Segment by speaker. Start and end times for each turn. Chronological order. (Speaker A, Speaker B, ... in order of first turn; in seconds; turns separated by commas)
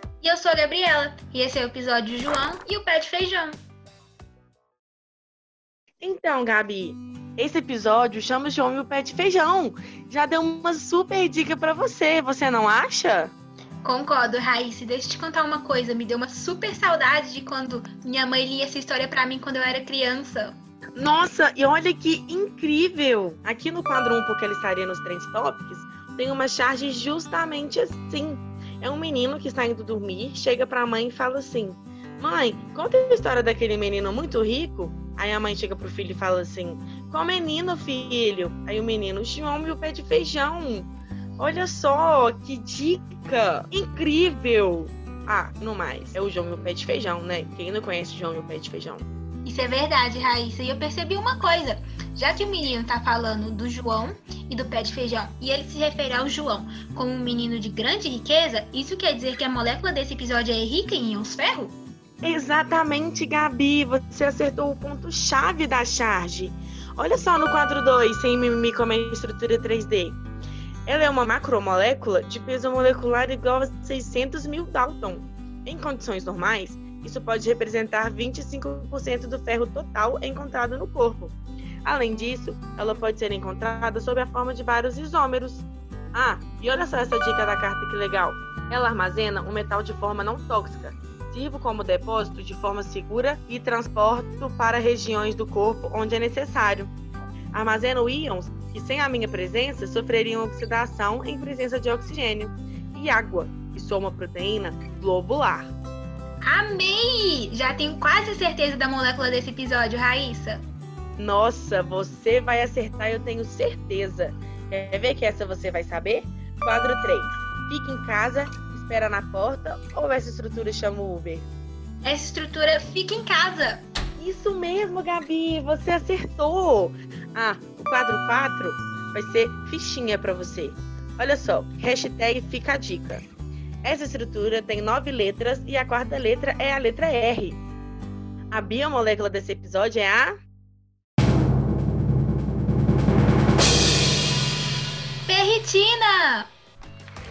Speaker A: 0.2-3.6, Speaker B: 6.0-13.3, Speaker A: 13.8-20.6, Speaker B: 20.9-49.1, Speaker A: 49.4-61.8, Speaker B: 62.2-70.2, Speaker B: 70.9-96.9, Speaker B: 97.5-105.7, Speaker A: 106.4-110.6, Speaker B: 111.2-121.5, Speaker A: 122.0-123.8, Speaker B: 124.2-133.2, Speaker B: 133.8-137.6, Speaker B: 138.5-140.3, Speaker A: 145.2-146.5